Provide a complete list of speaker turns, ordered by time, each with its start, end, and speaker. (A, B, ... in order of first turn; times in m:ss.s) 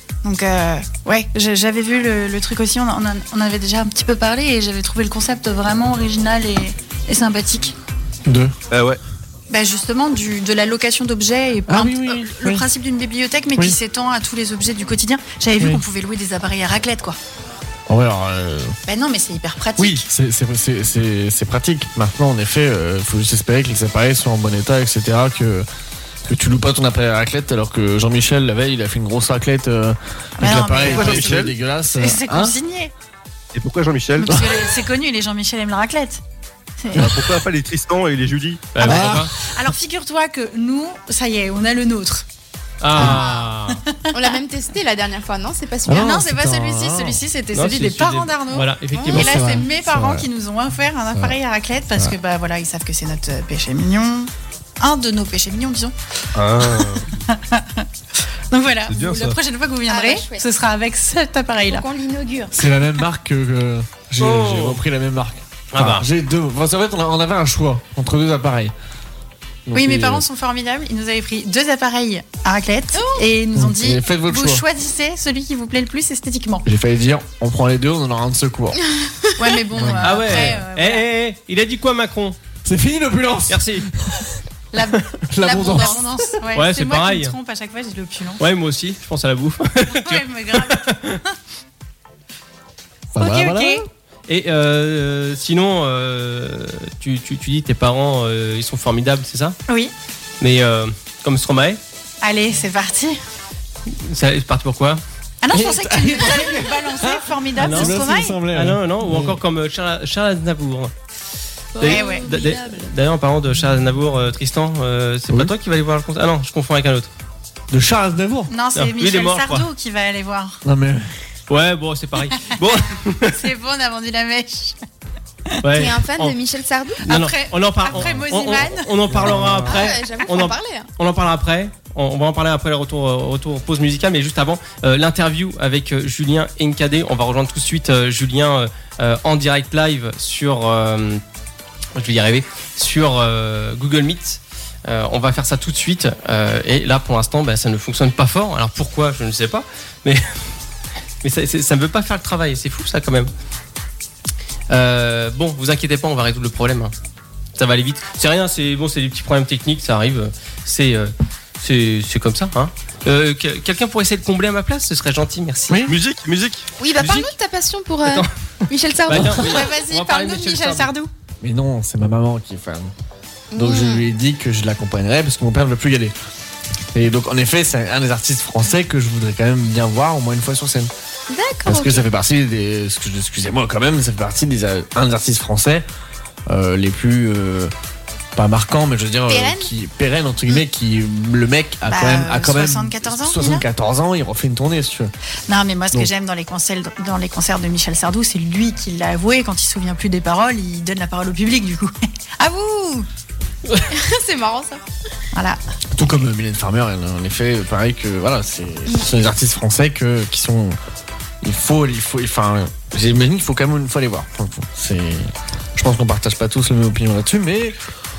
0:00.2-0:07.8 A
0:08.3-0:08.5 B
0:08.7-0:09.0 C
0:09.5-0:17.2 A
0:11.7-0:12.7 B
0:17.9-0:18.8 B
0:18.9-0:20.1 A
0:19.8-0:25.7 B
0:26.3-0:32.5 B
0:30.4-0:32.9 A
0:30.8-0:31.6 C
0:33.5-0:34.4 C
0:34.2-0:36.2 A
0:34.3-0:34.6 B
0:36.8-0:37.1 A
0:37.0-0:38.8 C
0:38.7-0:39.3 D
0:38.8-0:39.4 B
0:38.8-0:42.3 A
0:42.8-0:43.8 D
0:43.0-0:44.3 A
0:44.1-0:46.1 E
0:45.9-0:47.2 B
0:45.9-0:55.9 A
0:47.5-0:49.4 D
0:48.9-0:49.2 E
0:49.1-0:50.3 B
0:56.4-0:57.2 C
0:56.6-0:57.8 A
0:58.5-1:01.9 A
0:58.9-0:59.4 C
0:59.9-1:00.4 E
1:01.7-1:02.6 E
1:02.5-1:08.7 B
1:04.2-1:04.8 D
1:05.7-1:06.1 D
1:09.7-1:10.2 B
1:09.7-1:16.7 A
1:12.9-1:13.2 E
1:13.6-1:14.6 B
1:16.6-1:18.8 B
1:19.4-1:21.1 A
1:19.7-1:20.6 B
1:20.0-1:22.4 D
1:22.6-1:24.4 B
1:23.5-1:23.8 D
1:24.7-1:28.4 A
1:25.3-1:26.1 B
1:25.6-1:26.0 E
1:26.5-1:27.4 D
1:28.4-1:31.2 D
1:29.9-1:31.2 A
1:33.1-1:33.8 B
1:33.2-1:33.9 A
1:34.3-1:39.6 D
1:40.4-1:41.8 D
1:42.2-1:43.2 A
1:43.9-1:45.0 D
1:45.4-1:48.4 A
1:45.5-1:49.4 B
1:47.6-1:48.0 D
1:48.5-1:50.9 D
1:51.8-1:53.0 E
1:51.8-1:57.1 D
1:51.8-1:52.3 A
1:57.7-1:58.5 B
1:58.5-2:00.6 A
1:58.8-1:59.7 D
2:00.6-2:01.1 B
2:01.5-2:03.4 D
2:03.3-2:04.8 A
2:05.6-2:06.4 D
2:05.8-2:07.1 E
2:07.0-2:08.9 A
2:07.1-2:21.2 D
2:09.1-2:09.7 B
2:09.6-2:10.9 E
2:22.0-2:30.3 D
2:31.2-2:33.3 D
2:34.7-2:36.9 D
2:37.6-2:45.8 D
2:45.7-2:46.0 B
2:45.9-2:46.6 C
2:46.8-2:49.4 E
2:47.0-2:47.3 D
2:48.0-2:48.3 D
2:49.1-2:50.9 D
2:49.1-2:49.6 B
2:49.4-2:51.1 A
2:51.4-2:52.9 B
2:53.5-2:54.1 E
2:53.5-2:56.2 B
2:56.9-3:00.9 B
3:01.3-3:02.1 E
3:01.6-3:05.8 B
3:06.5-3:07.7 B
3:08.4-3:15.1 B
3:09.3-3:09.7 E
3:11.9-3:13.6 A
3:15.5-3:23.1 A
3:23.9-3:24.8 E
3:25.3-3:25.6 A
3:26.0-3:30.8 B
3:31.4-3:37.8 B